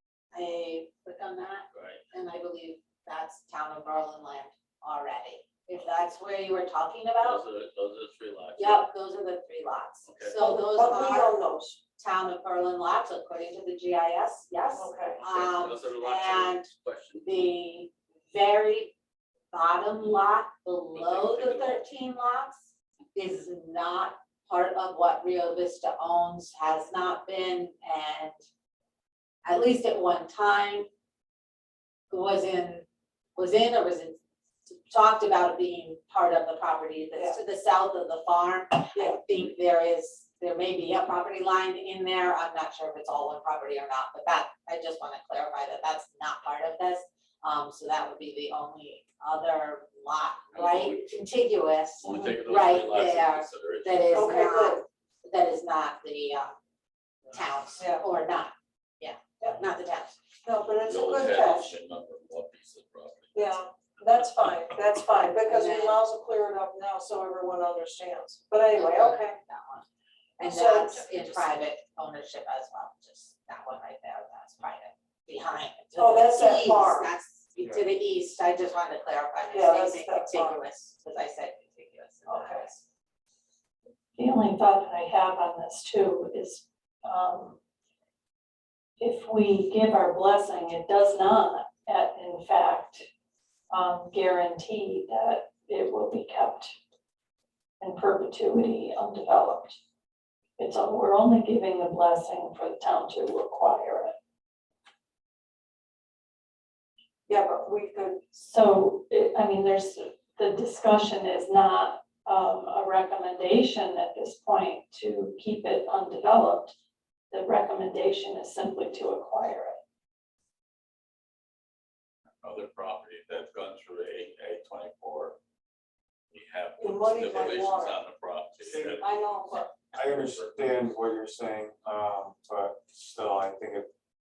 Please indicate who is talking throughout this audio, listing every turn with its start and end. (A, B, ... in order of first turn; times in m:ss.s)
0:00.3-0:07.4 A
0:01.7-0:02.0 B
0:07.2-0:08.9 B
0:08.6-0:11.4 A
0:10.0-0:10.4 B
0:10.4-0:11.8 C
0:12.0-0:16.7 A
0:14.8-0:15.2 C
0:15.2-0:17.5 B
0:17.2-0:18.9 A
0:19.5-0:28.4 A
0:20.9-0:21.8 B
0:29.4-0:30.9 A
0:32.1-0:32.8 A
0:33.4-0:56.5 A
0:37.1-0:37.4 C
0:38.9-0:39.2 C
0:50.5-0:51.2 B
0:52.0-0:54.2 B
0:54.1-0:54.8 C
0:57.3-1:00.2 A
0:57.8-0:58.0 C
1:00.4-1:01.8 C
1:00.8-1:03.6 B
1:03.3-1:09.4 C
1:05.5-1:06.0 A
1:08.7-1:09.8 A
1:10.4-1:22.8 A
1:10.4-1:11.0 C
1:16.0-1:17.1 C
1:17.6-1:17.9 D
1:19.5-1:20.6 C
1:22.3-1:22.7 C
1:24.2-1:27.6 E
1:29.0-1:33.1 E
1:33.7-1:36.7 E
1:37.8-1:39.8 E
1:40.6-1:44.1 E
1:47.3-1:48.2 C
1:48.3-1:56.7 E
1:57.3-1:59.8 E
2:02.4-2:05.4 B
2:06.3-2:10.8 B
2:06.8-2:08.0 C
2:08.6-2:09.1 D
2:09.0-2:09.7 C
2:09.9-2:13.9 D